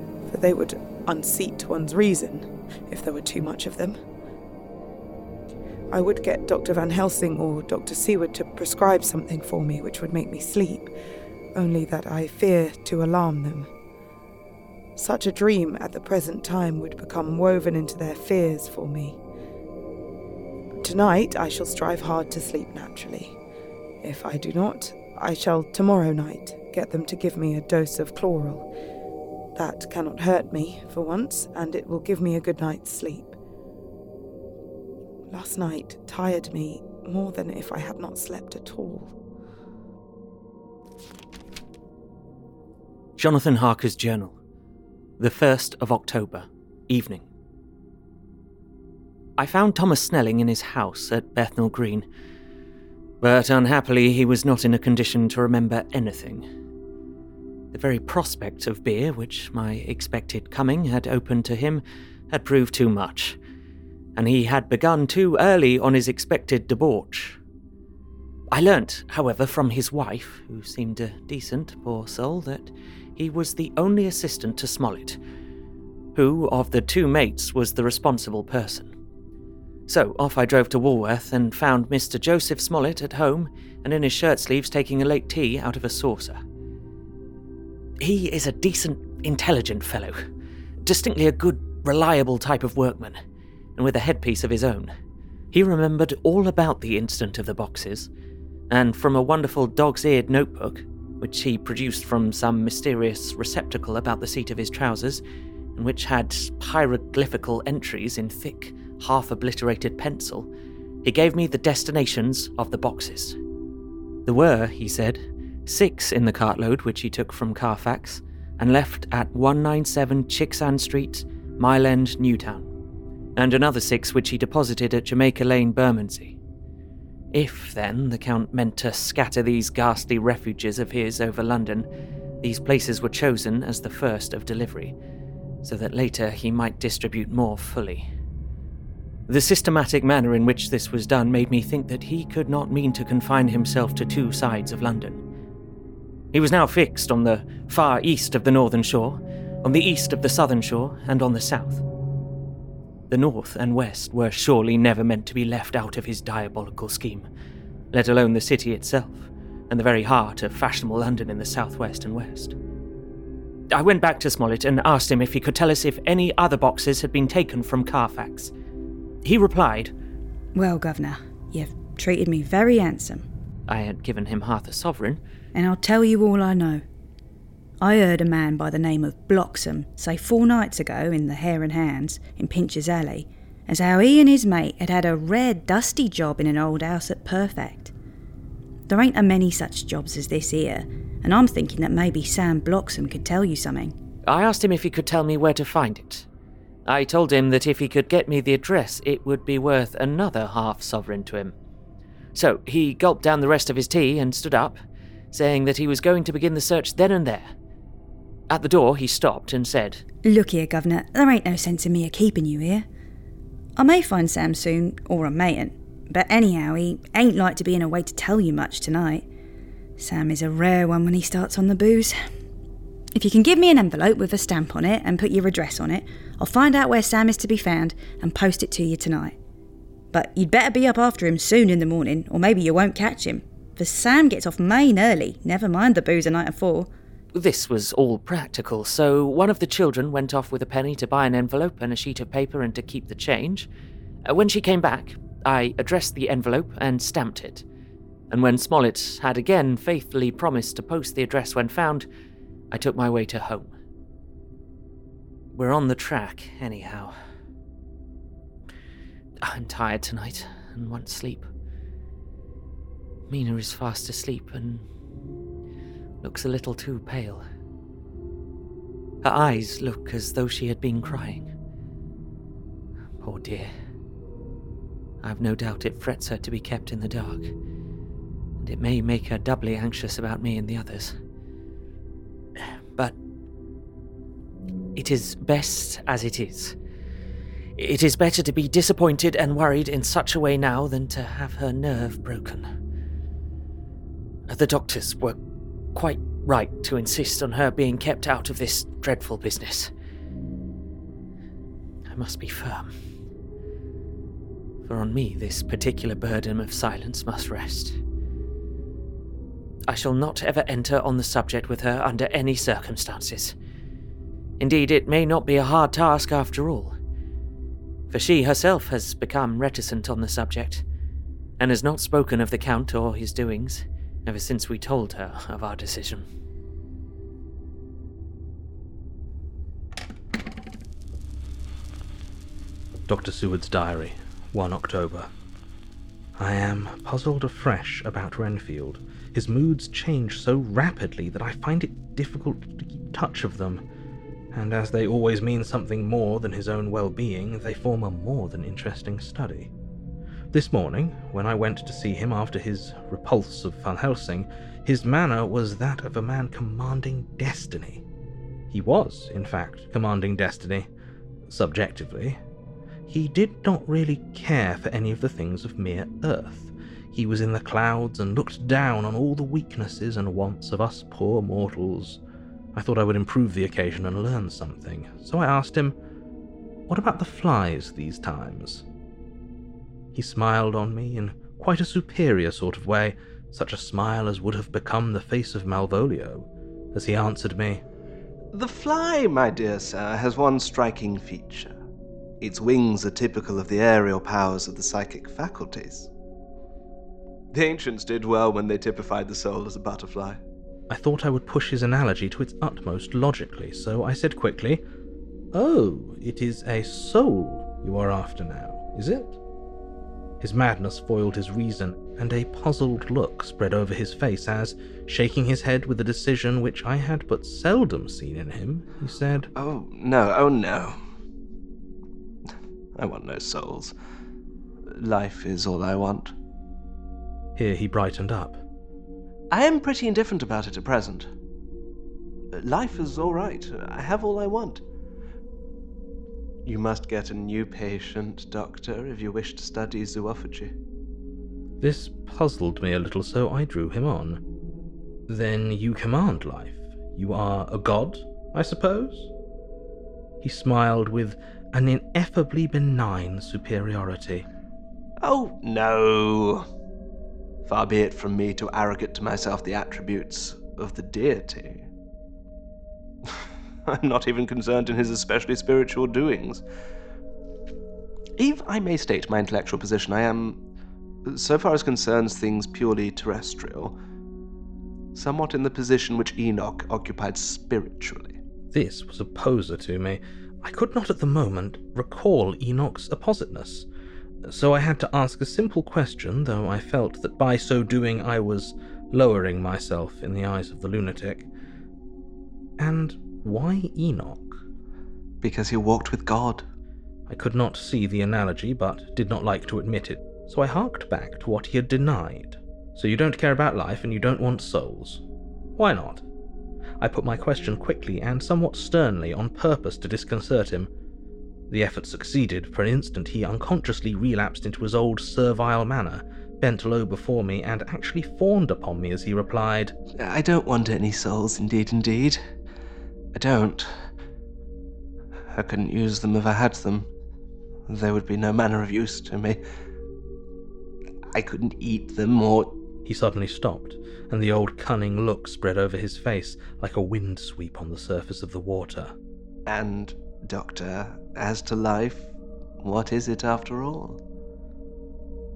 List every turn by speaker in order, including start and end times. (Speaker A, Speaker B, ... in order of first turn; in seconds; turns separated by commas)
Speaker A: 0.3-4.0, Speaker A: 5.9-10.9, Speaker A: 11.5-13.7, Speaker A: 14.9-19.2, Speaker A: 20.8-23.4, Speaker A: 24.0-28.7, Speaker A: 29.5-33.3, Speaker A: 35.3-39.1, Speaker B: 43.2-44.3, Speaker B: 45.2-47.2, Speaker B: 49.4-52.0, Speaker B: 53.2-56.4, Speaker B: 57.7-63.4, Speaker B: 64.2-67.4, Speaker B: 68.5-75.2, Speaker B: 76.1-78.9, Speaker B: 79.9-86.4, Speaker B: 88.0-90.2, Speaker B: 90.8-93.2, Speaker B: 93.8-94.9, Speaker B: 95.5-98.1, Speaker B: 98.7-105.2, Speaker B: 105.8-110.5, Speaker B: 111.0-113.4, Speaker B: 114.2-122.7, Speaker B: 123.3-126.4, Speaker B: 127.3-131.9, Speaker B: 132.4-134.9, Speaker B: 135.6-138.1, Speaker B: 139.3-145.2, Speaker B: 146.3-151.8, Speaker B: 153.1-157.3, Speaker B: 157.9-162.5, Speaker B: 163.7-168.5, Speaker B: 169.2-169.9, Speaker C: 170.5-173.3, Speaker B: 173.7-175.2, Speaker C: 175.5-176.8, Speaker C: 177.8-187.9, Speaker C: 188.9-193.9, Speaker B: 194.2-196.3, Speaker B: 196.9-201.5, Speaker B: 202.3-204.8, Speaker B: 205.3-207.5, Speaker B: 208.5-210.0, Speaker C: 210.2-212.9, Speaker C: 213.8-219.2, Speaker C: 220.0-222.2, Speaker C: 223.1-229.3, Speaker C: 230.1-236.9, Speaker B: 237.3-243.7, Speaker B: 244.2-247.6, Speaker B: 248.3-252.1, Speaker B: 252.7-253.7, Speaker B: 255.5-257.1, Speaker B: 259.4-261.5, Speaker B: 263.3-264.8, Speaker B: 266.2-267.4, Speaker B: 269.2-271.5, Speaker B: 273.2-273.7, Speaker B: 275.2-277.5, Speaker B: 278.6-281.1, Speaker B: 284.9-286.8, Speaker B: 287.8-292.6, Speaker B: 294.5-295.4, Speaker B: 295.9-299.9, Speaker B: 302.1-302.9, Speaker B: 304.9-308.0, Speaker B: 309.9-313.5, Speaker B: 314.6-316.9, Speaker B: 318.1-320.8, Speaker B: 321.6-326.3, Speaker D: 333.1-335.3, Speaker D: 336.4-343.8, Speaker D: 344.5-349.7, Speaker D: 350.5-358.0, Speaker D: 358.7-360.9, Speaker D: 361.5-362.4, Speaker D: 363.1-372.2, Speaker D: 372.7-375.9, Speaker D: 376.9-378.8, Speaker D: 380.1-387.8, Speaker E: 388.5-391.8, Speaker E: 392.4-396.1, Speaker E: 397.5-400.4, Speaker D: 400.9-404.8, Speaker D: 405.5-409.4, Speaker D: 410.4-419.5, Speaker E: 419.5-421.0, Speaker E: 422.9-423.9, Speaker E: 424.9-426.3, Speaker D: 427.6-428.6, Speaker E: 429.5-431.3, Speaker E: 432.5-434.8, Speaker E: 436.6-440.7, Speaker D: 441.8-444.4, Speaker D: 445.3-449.3, Speaker D: 450.4-454.4, Speaker E: 455.2-456.6, Speaker E: 457.6-461.9, Speaker E: 463.2-466.6, Speaker E: 468.4-470.6, Speaker E: 471.2-473.9, Speaker E: 475.1-478.4, Speaker D: 478.7-483.9, Speaker D: 484.4-491.5, Speaker D: 492.8-494.6, Speaker E: 495.4-496.6, Speaker D: 497.3-505.2, Speaker D: 505.8-506.2, Speaker D: 507.0-510.9, Speaker D: 511.7-519.9, Speaker E: 520.2-522.4, Speaker E: 523.3-524.0, Speaker E: 525.5-527.1, Speaker E: 527.9-529.6, Speaker E: 531.3-532.7, Speaker D: 533.0-539.1, Speaker E: 539.7-544.2